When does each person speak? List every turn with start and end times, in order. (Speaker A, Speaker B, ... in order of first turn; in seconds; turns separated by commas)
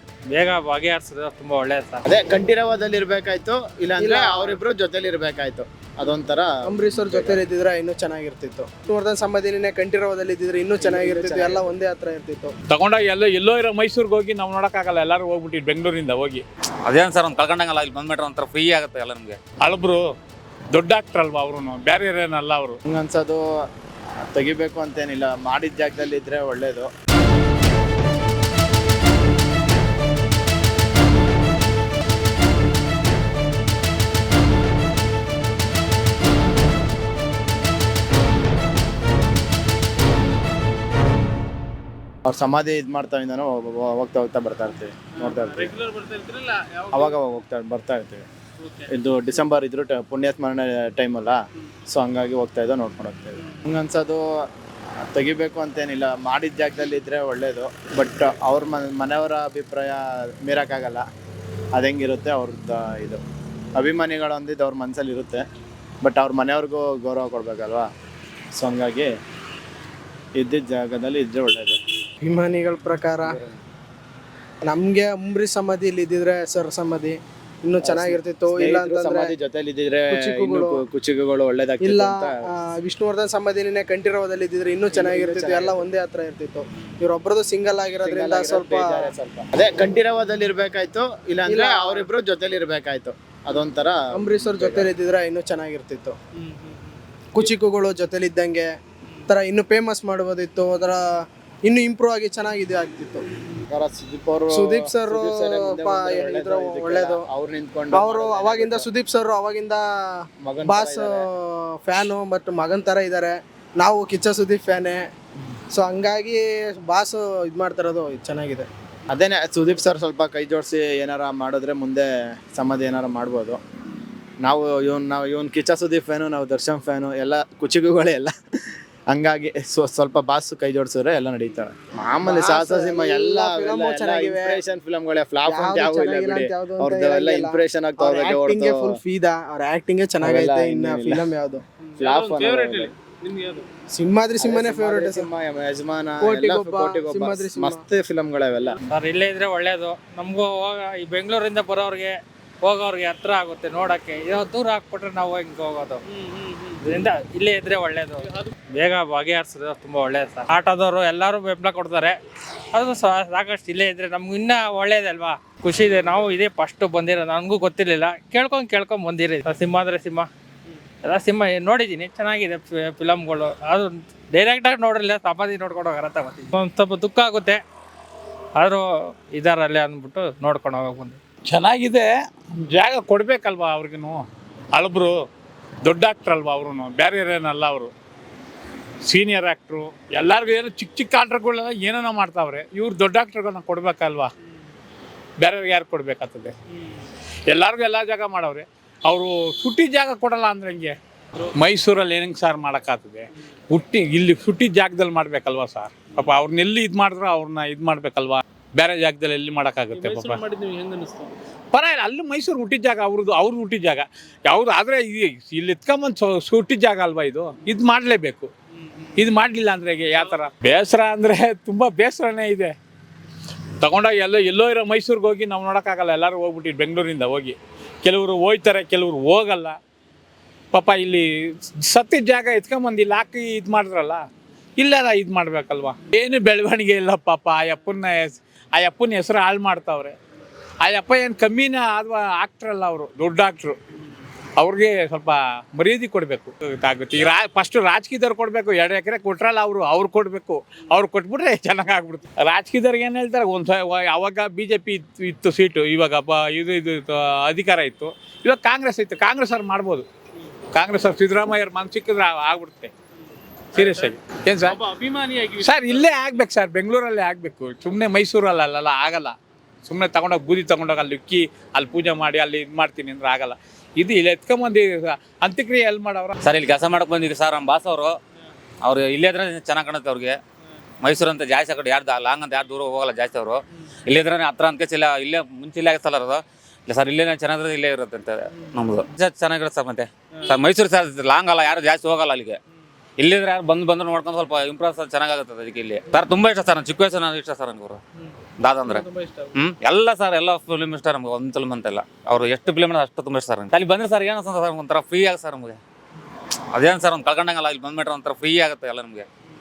Speaker A: 0.3-2.0, Speaker B: 2.0-7.4, Speaker C: 4.0-4.6, Speaker C: 6.7-12.5, Speaker B: 10.8-11.6, Speaker D: 12.7-16.4, Speaker E: 16.9-19.4, Speaker D: 19.6-20.0, Speaker D: 20.7-22.8, Speaker B: 22.9-23.4, Speaker B: 24.2-26.9, Speaker B: 42.2-45.8, Speaker F: 45.2-47.1, Speaker B: 46.9-48.3, Speaker F: 48.6-48.9, Speaker B: 48.9-54.2, Speaker B: 55.0-61.0, Speaker B: 61.7-63.2, Speaker B: 63.8-65.4, Speaker B: 66.0-67.9, Speaker B: 68.5-69.1, Speaker B: 70.4-71.8, Speaker C: 72.2-73.4, Speaker B: 73.2-73.5, Speaker C: 74.7-79.3, Speaker B: 77.8-82.4, Speaker C: 80.1-80.8, Speaker C: 81.8-89.1, Speaker B: 84.9-85.8, Speaker B: 88.0-94.9, Speaker C: 91.5-92.1, Speaker C: 94.1-96.2, Speaker F: 96.4-96.9, Speaker C: 97.3-98.7, Speaker C: 99.3-101.1, Speaker C: 101.7-103.3, Speaker B: 103.7-108.9, Speaker C: 104.5-107.3, Speaker C: 107.9-115.0, Speaker B: 110.4-111.3, Speaker C: 115.7-118.7, Speaker B: 119.1-123.6, Speaker B: 124.4-128.3, Speaker B: 129.1-138.9, Speaker C: 132.2-134.6, Speaker C: 135.5-141.6, Speaker B: 140.2-141.3, Speaker F: 141.9-143.7, Speaker B: 142.0-142.9, Speaker C: 143.9-145.3, Speaker B: 144.4-148.8, Speaker C: 146.2-147.8, Speaker A: 148.9-156.0, Speaker F: 156.1-156.8, Speaker A: 156.8-162.2, Speaker A: 162.7-170.3, Speaker A: 171.0-177.6, Speaker A: 178.6-181.2, Speaker D: 181.5-182.1, Speaker D: 182.7-185.2, Speaker D: 185.8-187.9, Speaker D: 189.1-194.3, Speaker D: 195.4-196.6, Speaker D: 197.5-200.9, Speaker D: 201.6-210.4, Speaker F: 206.1-206.3, Speaker F: 209.9-211.3, Speaker D: 211.7-218.5, Speaker F: 219.0-219.2, Speaker D: 219.2-222.7, Speaker D: 223.8-229.8, Speaker D: 230.7-234.2, Speaker D: 234.8-240.2, Speaker D: 240.8-243.8, Speaker D: 244.6-260.1, Speaker D: 260.7-262.9, Speaker D: 263.7-264.8, Speaker F: 263.8-264.1, Speaker F: 264.6-266.2, Speaker D: 265.6-276.4, Speaker E: 276.4-278.1, Speaker E: 278.8-280.4, Speaker E: 281.0-292.6, Speaker E: 293.2-298.0, Speaker E: 298.6-305.8, Speaker F: 298.9-299.5, Speaker E: 306.7-309.3